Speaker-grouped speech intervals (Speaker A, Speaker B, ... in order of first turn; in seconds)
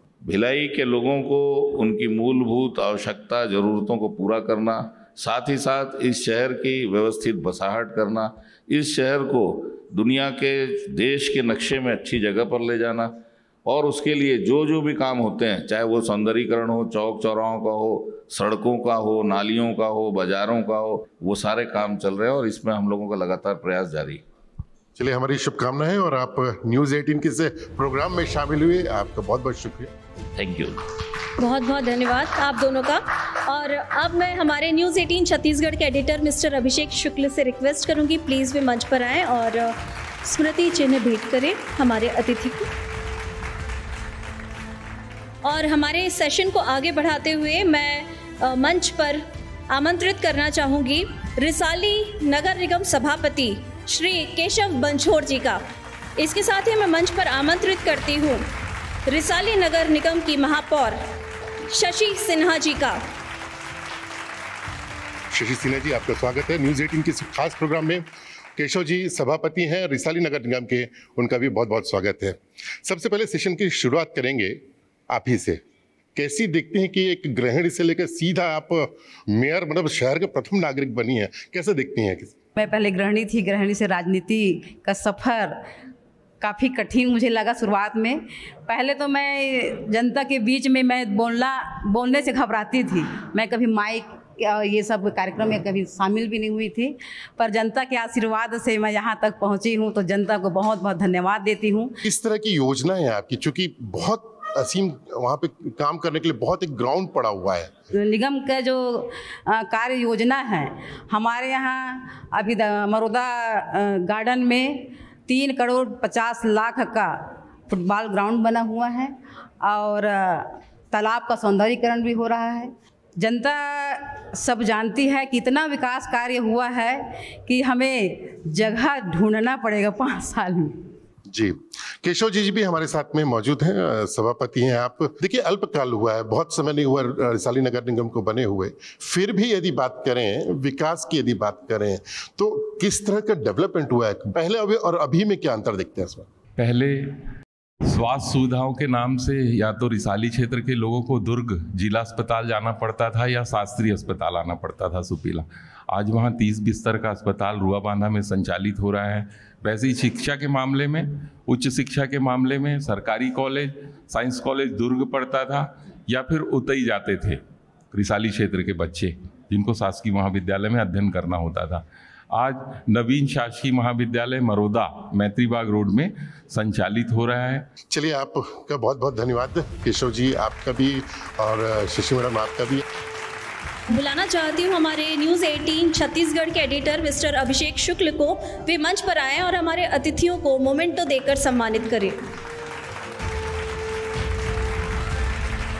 Speaker A: 0.2-13.1, 13.7-24.2, 30.4-30.8
Speaker B: 24.9-29.9, 65.3-68.0, 68.5-75.6, 76.1-82.3, 102.0-107.7, 131.3-146.3, 177.9-182.8
Speaker C: 31.4-42.7, 45.4-55.6, 56.2-58.4, 59.0-61.0, 61.7-63.0, 183.9-192.2
Speaker D: 82.5-85.6, 86.4-101.9, 107.9-130.9
Speaker E: 146.6-147.3, 147.8-167.4, 167.9-177.7